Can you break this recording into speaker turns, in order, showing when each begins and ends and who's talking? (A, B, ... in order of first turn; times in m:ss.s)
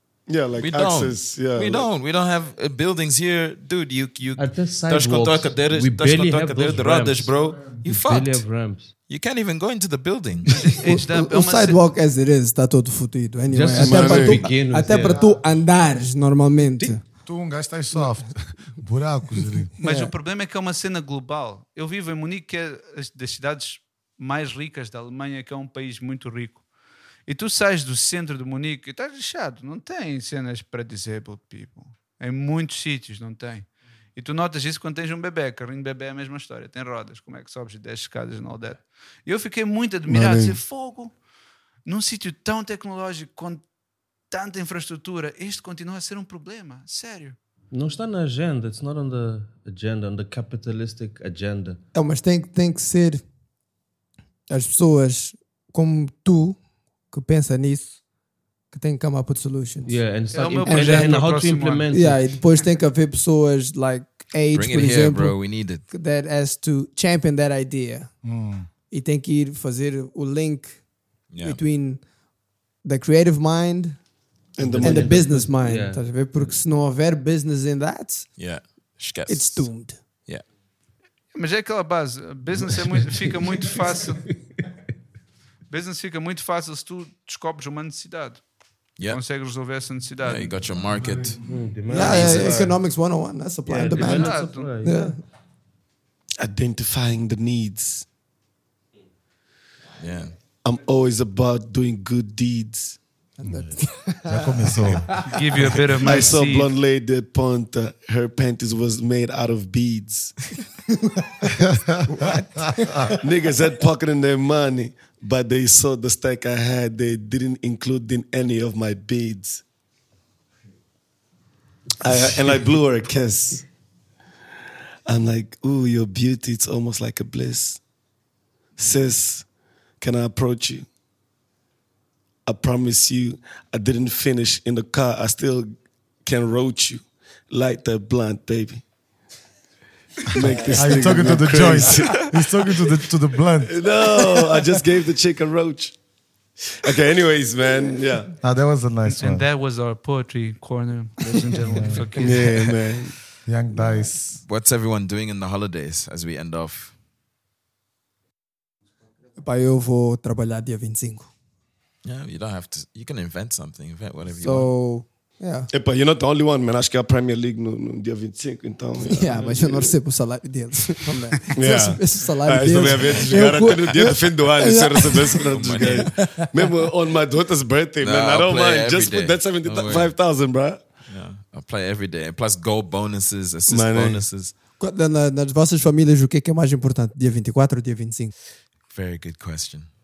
0:00.3-0:01.9 A
0:00.6-0:08.4 B
0:04.4-0:08.9 C
0:09.1-0:10.5 B
0:10.5-0:11.8 D
0:10.8-0:17.0 E
0:13.5-0:15.2 C
0:13.8-0:14.4 A
0:15.0-0:15.4 F
0:17.2-0:19.7 F
0:19.8-0:26.6 D
0:19.8-0:20.1 E
0:27.3-0:41.1 D
0:40.1-0:40.6 A
0:41.8-0:43.6 D
0:44.3-0:47.4 D
0:47.7-0:51.8 C
0:51.9-0:53.2 E
0:54.5-0:56.6 E
0:57.1-0:58.0 E
0:58.7-1:00.0 E
0:59.8-1:02.4 C
1:00.3-1:01.9 D
1:00.7-1:01.2 E
1:01.9-1:08.1 E
1:04.5-1:05.8 B
1:08.2-1:08.7 F
1:08.9-1:10.8 E
1:11.3-1:11.6 B
1:11.4-1:12.0 E
1:12.8-1:14.0 E
1:14.6-1:15.2 A
1:14.6-1:16.6 C
1:14.8-1:18.3 E
1:18.4-1:19.7 B
1:19.3-1:20.0 E
1:21.3-1:24.2 D
1:22.7-1:23.7 C
1:25.7-1:28.4 D
1:29.0-1:30.5 D
1:30.2-1:32.7 B
1:31.4-1:32.8 C
1:31.9-1:35.2 E
1:33.7-1:35.1 C
1:34.0-1:34.8 D
1:36.4-1:38.0 A
1:40.0-1:40.3 B
1:40.6-1:43.0 A
1:43.4-1:45.2 E
1:43.4-1:45.2 F
1:45.2-1:46.7 D
1:46.0-1:50.4 A
1:51.6-1:51.9 F
1:52.1-1:52.9 E
1:52.8-1:53.1 F
1:53.2-1:59.6 A
2:02.0-2:03.7 A
2:05.1-2:07.8 A
2:08.8-2:09.4 A
2:10.0-2:10.9 A
2:12.4-2:15.7 A
2:16.2-2:18.8 A
2:20.3-2:22.3 A
2:20.7-2:23.8 F
2:23.6-2:26.0 A
2:26.7-2:28.4 A
2:28.4-2:29.4 F
2:29.0-2:32.5 D
2:31.7-2:32.1 F
2:32.2-2:33.2 A
2:32.4-2:32.7 B
2:33.4-2:34.4 F
2:34.4-2:36.9 B
2:39.4-2:41.3 E
2:42.0-2:44.7 B
2:44.3-2:45.7 E
2:45.7-2:50.0 A
2:49.0-2:55.3 E
2:51.6-3:00.8 A
2:55.3-2:56.2 B
2:56.2-2:56.5 E
2:58.0-3:00.1 B
3:01.1-3:04.5 B
3:03.7-3:04.2 A
3:04.8-3:08.3 E
3:08.9-3:09.9 B